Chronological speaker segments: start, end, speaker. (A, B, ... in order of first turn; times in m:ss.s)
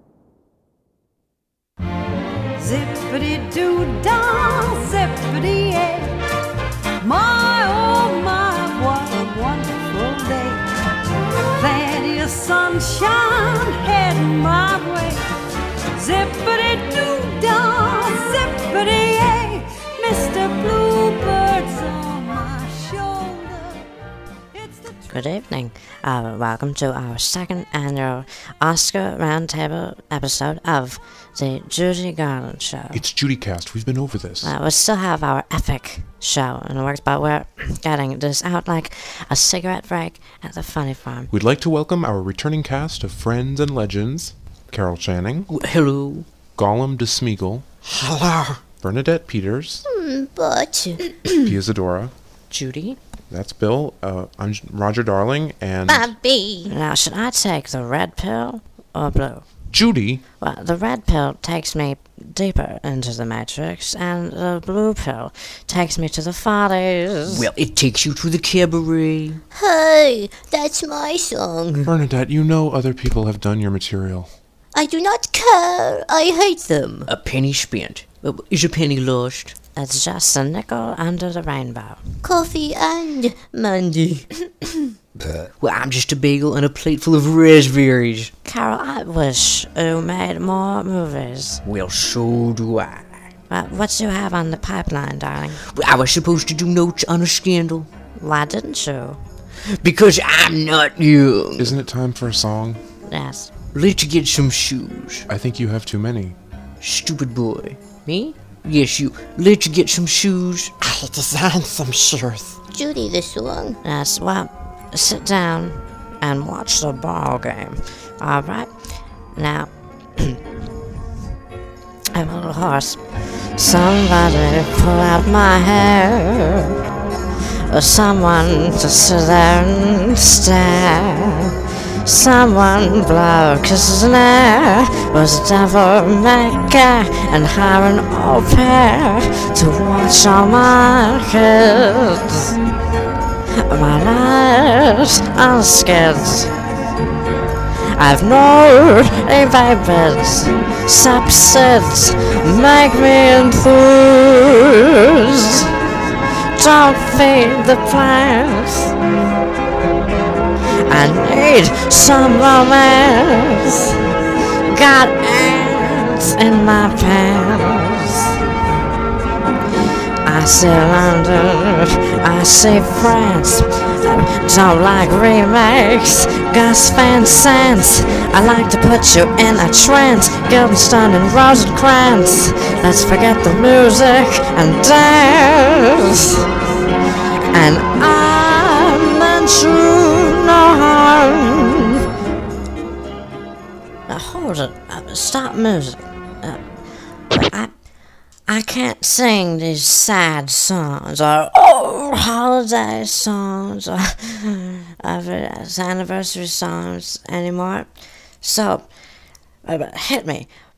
0:02.6-0:06.2 A
0:07.0-0:10.6 A
0:11.6-0:15.2 A
0:15.9-0:23.9 A
0:24.5-0:25.0 A
0:25.1-0:33.0 B
0:32.9-0:34.5 C
0:34.4-0:41.3 B
0:41.3-0:45.5 C
0:45.5-0:46.3 D
0:46.6-0:47.6 C
0:47.8-0:48.6 E
0:48.8-0:49.8 C
0:49.8-0:51.3 F
0:51.4-0:52.1 C
0:52.5-0:53.0 B
0:53.3-0:56.1 C
0:55.8-0:56.7 F
0:56.7-0:59.4 B
0:59.7-1:00.2 C
1:00.4-1:07.5 B
1:07.3-1:09.4 D
1:09.5-1:11.9 F
1:11.8-1:14.3 C
1:14.7-1:17.1 F
1:17.1-1:19.6 D
1:19.8-1:22.0 B
1:22.2-1:24.3 F
1:25.6-1:28.3 D
1:28.4-1:31.6 B
1:31.6-1:33.1 D
1:33.5-1:35.6 B
1:35.7-1:37.9 D
1:38.2-1:39.2 B
1:39.7-1:41.8 D
1:41.6-1:42.8 C
1:43.1-1:43.5 B
1:43.7-1:45.2 D
1:45.3-1:46.4 C
1:46.8-1:50.7 D
1:50.8-1:52.6 E
1:52.7-1:53.8 F
1:53.8-1:58.7 B
1:59.3-2:00.4 B
2:02.1-2:06.7 B
2:07.7-2:11.5 B
2:12.0-2:22.5 B
2:23.6-2:26.5 B
2:27.9-2:35.7 B
2:36.5-2:38.9 B
2:40.8-2:44.0 B
2:44.7-2:48.3 B
2:50.2-3:06.5 B
3:07.5-3:12.0 B
3:14.1-3:16.6 B
3:17.3-3:17.7 B
3:18.5-3:27.9 B
3:28.4-3:28.9 B
3:29.6-3:30.5 B